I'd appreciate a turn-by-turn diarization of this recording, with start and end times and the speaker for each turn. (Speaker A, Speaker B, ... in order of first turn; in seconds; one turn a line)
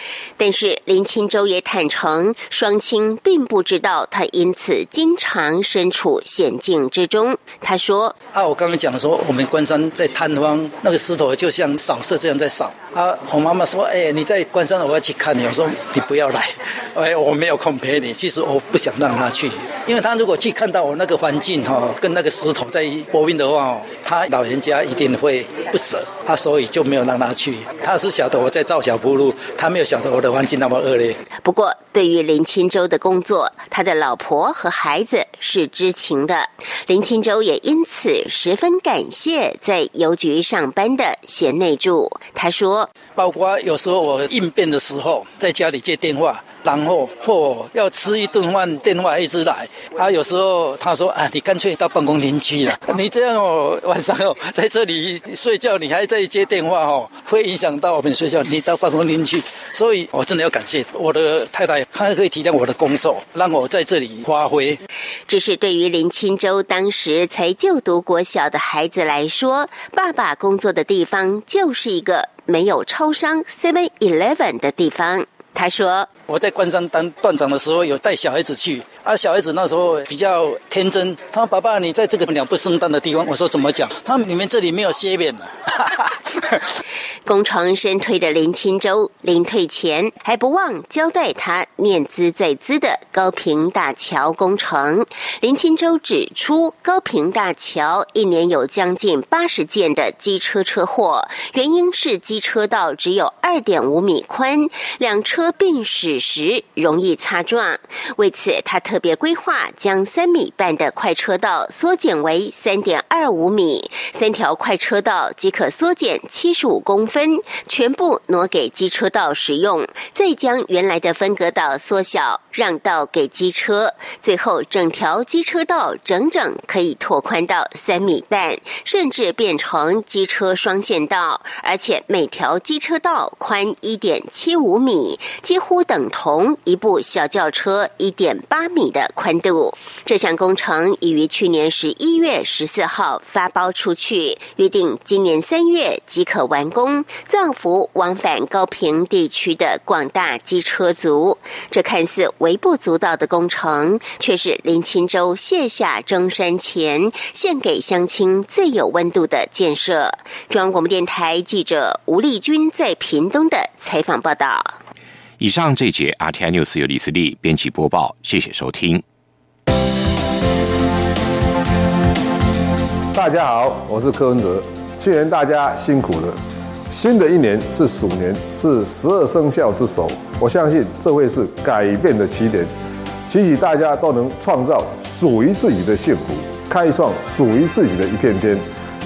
Speaker A: 0.4-8.2
Speaker B: 8.3-31.2
Speaker A: 31.4-42.9
Speaker B: 43.1-64.8
Speaker A: 65.3-76.1
Speaker B: 76.3-86.4
Speaker A: 87.3-164.8
Speaker C: 165.4-169.0
Speaker D: 173.1-176.4
Speaker D: 176.9-182.7
Speaker D: 183.3-188.6